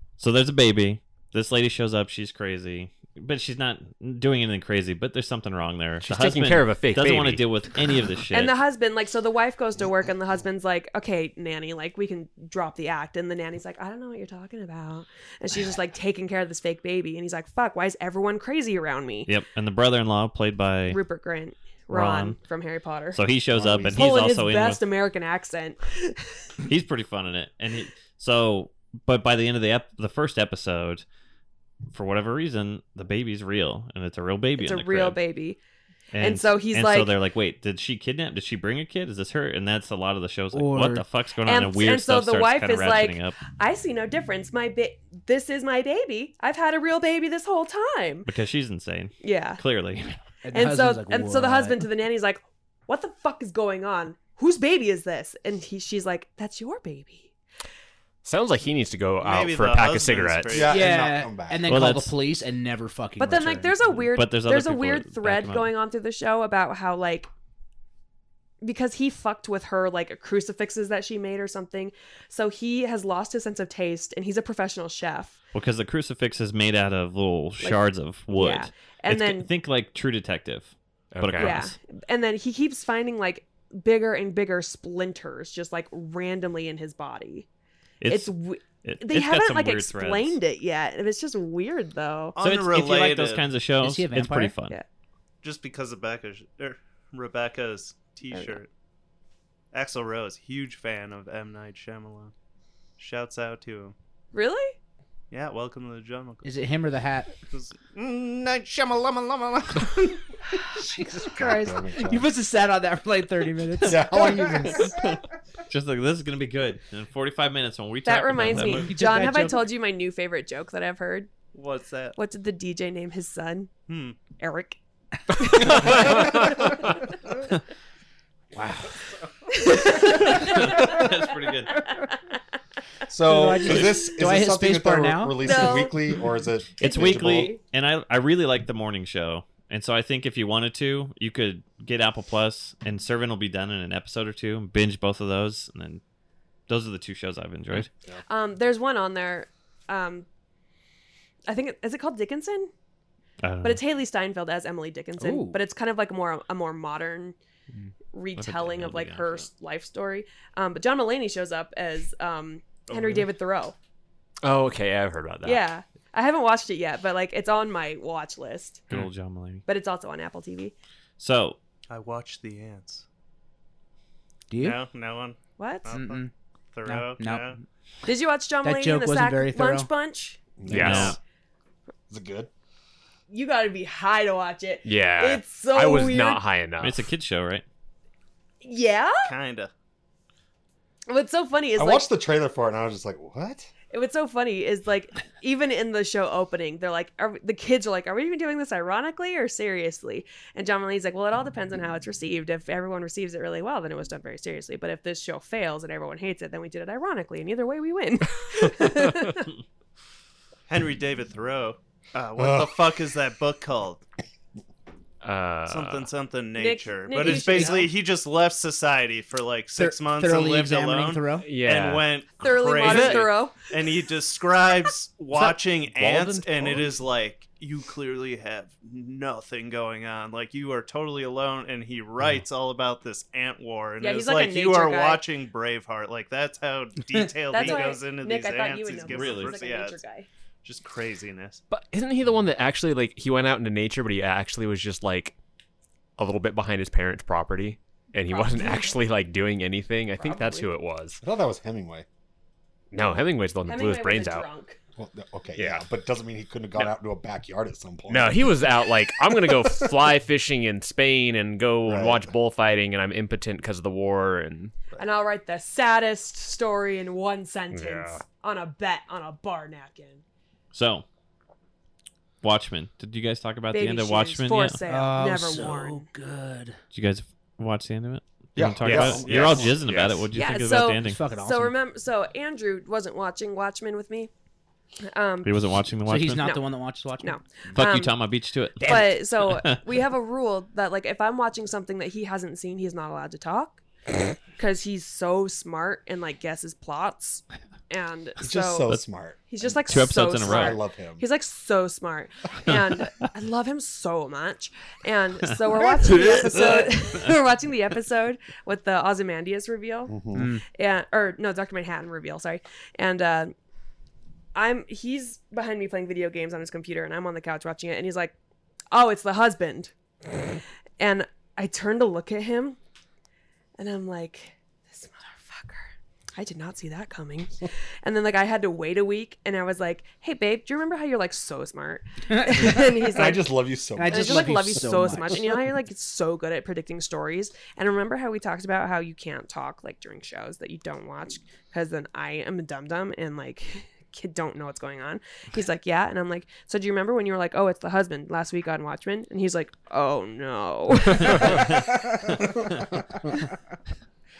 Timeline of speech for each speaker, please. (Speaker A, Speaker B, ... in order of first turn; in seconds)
Speaker A: 0.2-8.5, 19.3-21.0, 21.9-22.4, 23.1-24.8, 26.6-31.0, 31.9-35.2, 36.1-43.4, 48.2-50.2, 61.7-62.1, 64.0-65.7, 75.5-81.7, 88.0-88.3, 88.8-90.3, 92.4-94.8, 115.7-119.3, 130.2-131.8, 136.8-146.0, 146.7-147.9, 153.4-153.8, 158.4-159.4, 168.9-169.6, 171.2-171.6, 180.7-181.2, 186.8-187.6, 239.1-239.6, 270.7-271.0, 272.4-274.8, 276.9-281.2, 285.4-286.5, 287.7-289.8, 299.9-300.8, 306.0-307.3, 351.2-351.9
Speaker B: 6.0-7.4, 58.2-60.7, 81.1-81.6, 164.4-165.7, 180.7-181.2, 184.8-187.1, 215.2-216.1, 221.4-222.1, 222.8-223.2, 225.3-227.0, 241.7-245.3, 246.2-251.2, 252.9-254.5, 255.6-255.8, 258.1-264.8, 267.7-268.2, 278.8-280.3
Speaker C: 8.3-19.3, 20.9-23.2, 23.9-26.4, 34.6-35.6, 36.2-37.1, 41.4-48.3, 49.2-49.6, 50.5-57.3, 63.2-67.3, 68.6-75.4, 78.3-79.5, 81.4-87.5, 88.1-92.4, 98.3-98.6, 104.3-104.7, 118.0-121.3, 122.2-123.7, 124.4-124.8, 125.3-127.0, 129.5-132.0, 135.4-135.9, 136.8-137.6, 148.3-150.2, 151.5-152.7, 153.6-157.3, 158.1-163.7, 165.4-168.9, 169.7-170.7, 175.6-175.9, 178.0-180.4, 183.3-186.4, 188.6-189.3, 191.1-192.1, 193.9-209.5, 216.6-217.9, 222.4-223.7, 234.0-235.2, 237.5-240.3, 248.3-249.0, 250.2-250.7, 253.7-254.8, 264.9-270.2, 273.7-276.0, 280.3-284.3, 285.1-285.6, 286.4-286.7, 287.2-288.1, 288.8-298.9, 299.5-313.5, 314.5-318.3, 318.9-322.8, 323.8-325.8, 326.4-333.5, 334.1-351.8
Speaker D: 23.5-24.1, 60.5-61.7, 111.2-112.3, 113.8-115.1, 133.1-137.5, 180.6-181.2, 182.1-182.5, 191.8-193.7, 212.4-212.8, 251.2-252.1, 255.0-259.9, 261.8-262.3, 278.6-279.8, 298.4-301.2, 310.1-310.5, 332.6-334.9
Speaker E: 40.5-41.0, 50.4-51.8, 60.7-63.7, 93.8-94.5, 106.4-107.3, 110.7-114.9, 118.5-119.7, 128.5-129.0, 133.2-135.7, 155.2-155.6, 174.5-174.8, 175.9-176.3, 176.8-177.6, 178.6-179.9, 217.2-217.9, 219.8-221.4, 274.9-276.8, 281.0-281.7, 286.1-287.4, 288.8-289.1, 310.3-310.6, 332.3-332.9, 333.9-335.7
Speaker F: 59.2-61.0, 92.3-93.5, 95.4-98.7, 99.7-102.3, 103.0-103.9, 105.3-106.5, 107.4-110.2, 121.5-122.2, 123.9-124.2, 162.9-163.2, 171.9-173.0, 174.6-177.6, 189.2-189.7, 210.7-214.0, 215.7-240.0, 240.6-241.6, 279.2-279.6